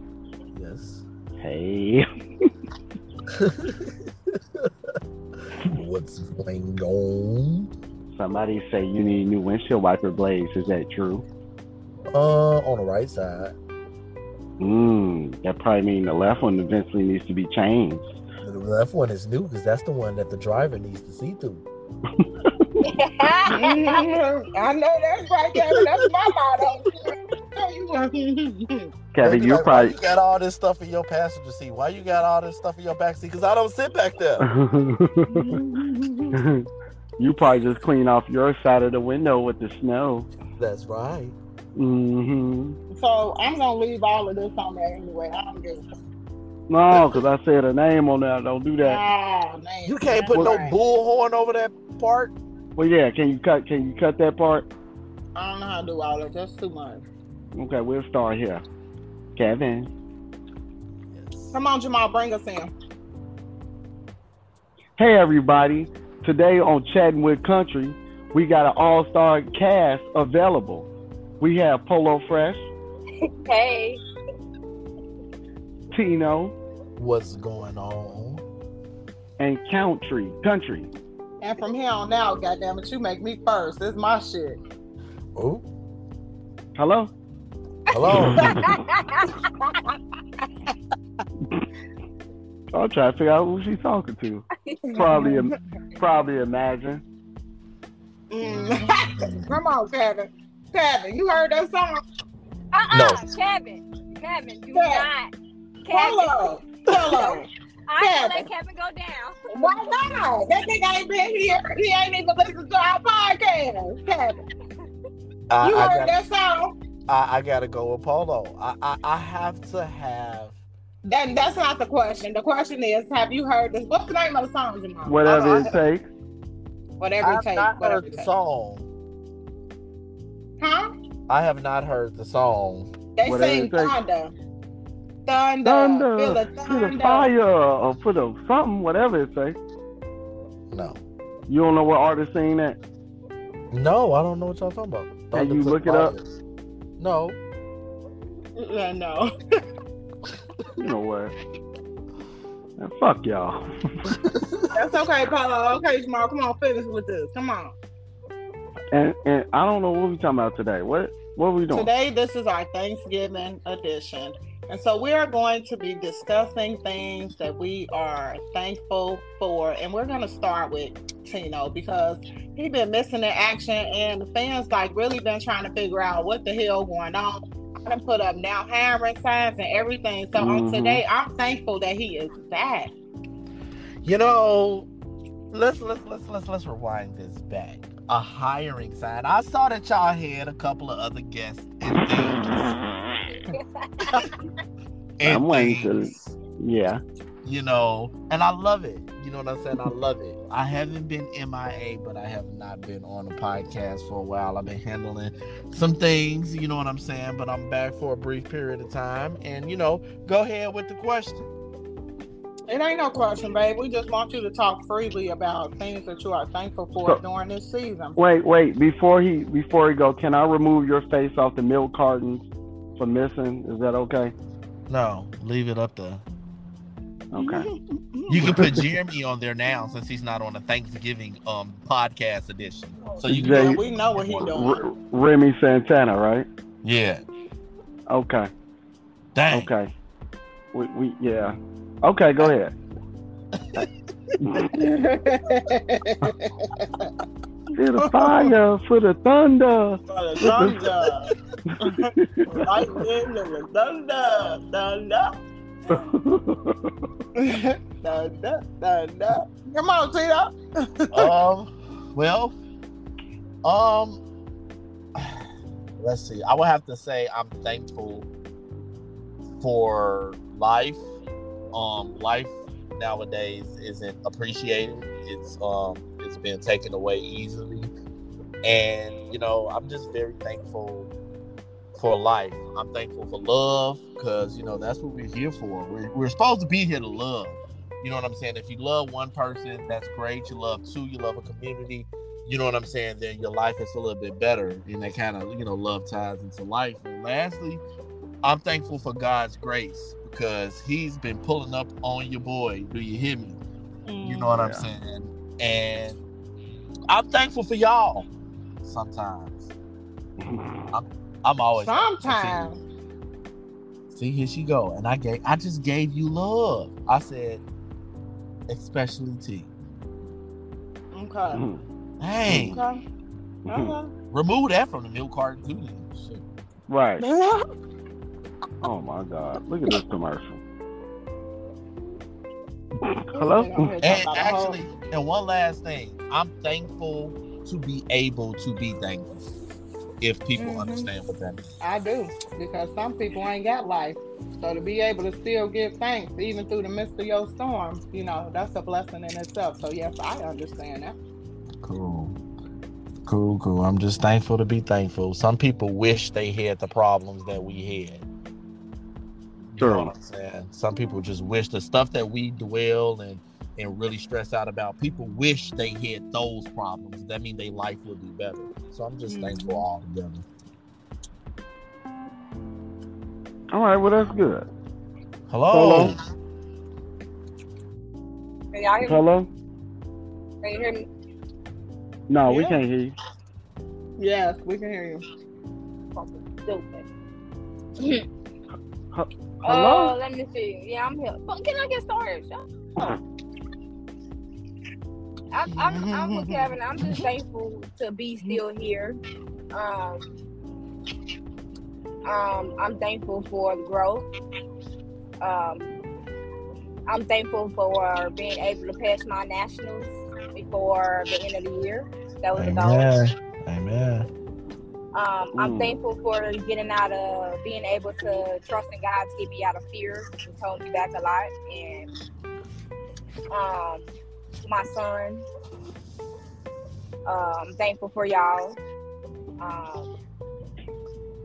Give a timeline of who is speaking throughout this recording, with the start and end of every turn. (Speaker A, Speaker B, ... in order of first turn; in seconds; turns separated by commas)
Speaker A: 0.5-1.0, Speaker B: 1.4-2.0, Speaker A: 3.3-4.7, Speaker A: 5.6-7.7, Speaker B: 8.1-11.2, Speaker A: 12.1-13.5, Speaker B: 14.6-18.1, Speaker A: 18.4-21.6, Speaker C: 22.8-24.0, Speaker D: 23.5-28.9, Speaker B: 29.1-29.9, Speaker A: 29.2-34.4, Speaker B: 34.4-35.6, Speaker D: 35.3-36.4, Speaker B: 36.3-36.7, Speaker B: 37.2-40.3, Speaker A: 40.6-41.4, Speaker B: 41.8-42.8, Speaker D: 42.9-45.8, Speaker B: 46.7-49.0, Speaker A: 46.9-47.2, Speaker D: 48.8-50.8, Speaker A: 49.8-52.3, Speaker B: 52.8-54.7, Speaker D: 55.4-57.0, Speaker B: 57.5-58.6, Speaker B: 59.4-59.9, Speaker A: 61.1-61.5, Speaker D: 61.5-62.7, Speaker B: 65.0-70.9, Speaker B: 71.4-72.6, Speaker C: 73.4-74.0, Speaker B: 75.9-76.5, Speaker A: 77.0-78.4, Speaker B: 79.4-80.9, Speaker D: 81.4-84.6, Speaker A: 85.3-85.6, Speaker B: 86.8-87.1, Speaker A: 87.9-88.5, Speaker D: 88.0-88.7, Speaker B: 88.1-88.7, Speaker C: 88.7-89.3, Speaker B: 92.7-94.5, Speaker C: 94.7-95.1, Speaker D: 94.9-95.5, Speaker B: 95.0-97.0, Speaker D: 98.3-102.0, Speaker A: 98.4-99.5, Speaker C: 102.7-105.3, Speaker A: 102.9-103.2, Speaker D: 104.7-105.1, Speaker C: 105.8-106.5, Speaker D: 105.9-107.5, Speaker C: 107.1-109.4, Speaker D: 108.0-108.5, Speaker D: 109.5-114.4, Speaker A: 115.5-116.1, Speaker D: 115.6-116.7, Speaker A: 117.1-120.6, Speaker D: 121.0-125.8, Speaker B: 125.0-126.1, Speaker D: 127.0-128.3, Speaker A: 127.2-128.9, Speaker D: 130.6-130.9, Speaker A: 131.3-132.9, Speaker D: 133.2-134.3, Speaker B: 133.2-133.9, Speaker D: 135.2-137.3, Speaker B: 135.6-139.6, Speaker A: 140.7-141.0, Speaker B: 141.5-142.8, Speaker A: 143.7-146.2, Speaker B: 145.3-146.1, Speaker A: 147.0-147.4, Speaker D: 148.6-149.3, Speaker B: 150.8-151.3, Speaker B: 152.8-154.1, Speaker A: 154.2-154.7, Speaker D: 154.7-157.7, Speaker B: 158.9-161.9, Speaker D: 161.7-182.9, Speaker B: 180.3-181.0, Speaker A: 184.0-184.9, Speaker A: 185.5-192.8, Speaker C: 193.5-194.3, Speaker A: 195.2-196.3, Speaker B: 195.2-197.0, Speaker A: 197.4-211.4, Speaker D: 212.7-218.2, Speaker B: 218.2-222.4, Speaker B: 223.0-224.3, Speaker A: 224.9-226.2, Speaker B: 227.3-227.7, Speaker D: 227.3-228.4, Speaker A: 228.3-234.5, Speaker B: 228.3-228.7, Speaker B: 233.3-233.8, Speaker D: 233.3-234.8, Speaker B: 234.4-236.5, Speaker A: 236.8-237.2, Speaker B: 238.1-238.5, Speaker A: 239.3-239.7, Speaker B: 239.5-239.9, Speaker B: 240.7-242.7, Speaker B: 244.4-244.9, Speaker D: 244.8-247.1, Speaker B: 247.7-250.8, Speaker D: 248.0-248.5, Speaker D: 250.1-255.3, Speaker B: 251.7-252.6, Speaker B: 255.9-256.9, Speaker D: 257.4-261.3, Speaker A: 261.1-262.6, Speaker A: 263.6-264.2, Speaker A: 265.1-265.5, Speaker A: 266.0-268.3, Speaker A: 269.6-271.0, Speaker A: 271.7-277.9, Speaker A: 278.6-281.1, Speaker A: 281.9-297.8, Speaker A: 298.4-303.6, Speaker D: 304.1-304.6, Speaker A: 304.2-306.2, Speaker B: 304.5-304.8, Speaker A: 307.1-308.3, Speaker A: 308.8-309.7, Speaker B: 310.4-310.9, Speaker A: 310.9-312.8, Speaker D: 311.8-312.8, Speaker A: 314.1-317.6, Speaker A: 318.7-319.7, Speaker D: 321.1-321.6, Speaker B: 321.5-321.8, Speaker A: 322.2-322.8, Speaker B: 322.5-322.8, Speaker D: 322.7-323.0, Speaker D: 323.7-324.1, Speaker B: 323.7-323.9, Speaker A: 324.3-326.4, Speaker B: 326.9-327.3, Speaker D: 327.2-327.6, Speaker B: 328.8-330.6, Speaker B: 333.0-333.9, Speaker D: 333.3-334.8, Speaker A: 334.0-339.4, Speaker A: 340.2-341.6, Speaker D: 340.6-341.1, Speaker D: 341.8-351.2, Speaker A: 351.8-352.4, Speaker A: 353.2-358.2, Speaker A: 359.7-370.4, Speaker B: 359.8-360.1, Speaker D: 369.3-369.8, Speaker B: 373.7-374.6, Speaker A: 375.5-376.2, Speaker B: 375.7-376.1, Speaker C: 378.7-379.2, Speaker B: 379.0-379.5, Speaker C: 380.6-381.1, Speaker B: 382.3-383.1, Speaker D: 382.5-382.8, Speaker D: 384.2-385.2, Speaker C: 386.1-387.1, Speaker C: 388.0-388.2, Speaker B: 389.1-390.1, Speaker C: 389.6-392.6, Speaker C: 395.5-399.2, Speaker D: 395.7-396.7, Speaker C: 399.7-400.2, Speaker C: 402.2-404.2, Speaker C: 405.4-405.9, Speaker C: 407.1-413.1, Speaker A: 412.6-414.3, Speaker C: 415.1-422.1, Speaker B: 415.5-415.9, Speaker C: 423.5-424.1, Speaker C: 424.6-425.4, Speaker C: 427.2-428.8, Speaker C: 429.6-430.1